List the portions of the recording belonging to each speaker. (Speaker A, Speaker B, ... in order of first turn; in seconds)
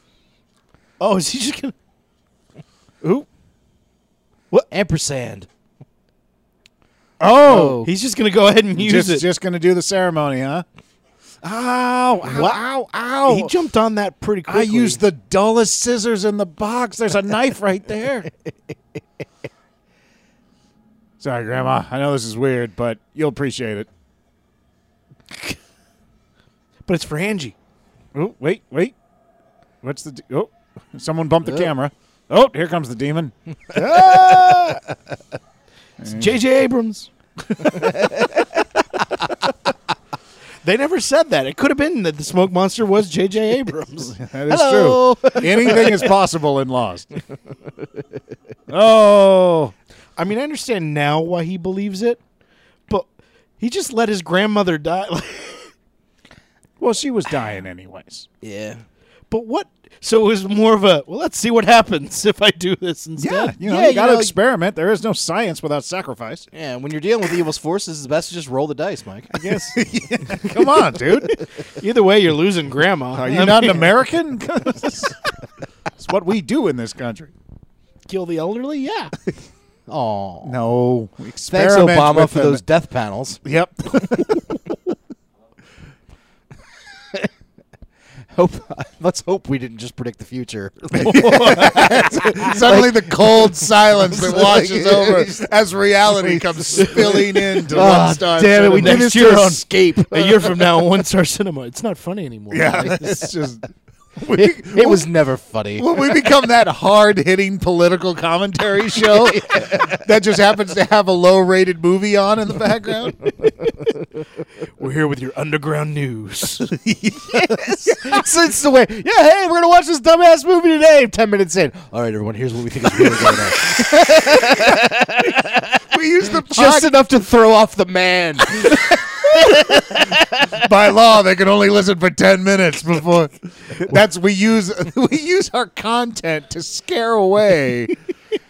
Speaker A: 1.0-1.7, 7.8-9.2, 12.3-12.6, 13.2-15.0, 26.9-27.5, 33.7-34.8, 36.1-37.1, 40.6-44.1, 50.2-52.2, 53.6-55.7, 59.3-63.6, 69.3-69.8, 71.6-74.0, 78.1-79.1, 91.2-91.7, 96.8-103.3, 114.8-116.7
Speaker B: 3.0-3.3, 7.2-7.8, 8.7-10.6, 11.4-13.5, 14.5-18.3, 21.2-23.9, 28.1-28.9, 29.8-33.3, 36.0-36.4, 44.1-47.1, 48.7-49.7, 56.8-58.3, 63.2-66.5, 69.7-71.4, 73.1-75.1, 76.0-77.3, 80.4-82.6, 83.4-84.6, 90.9-100.7, 102.5-103.7, 104.2-105.1, 105.8-113.3, 116.6-118.2, 125.9-126.9, 130.5-137.9
Speaker C: 4.7-5.5, 7.4-7.9, 37.7-38.4, 44.5-46.1, 58.4-58.8, 63.6-64.3, 66.5-69.4, 79.9-80.6, 81.5-83.4, 88.3-95.5, 96.1-99.6, 104.3-106.2, 109.0-110.0, 117.3-130.6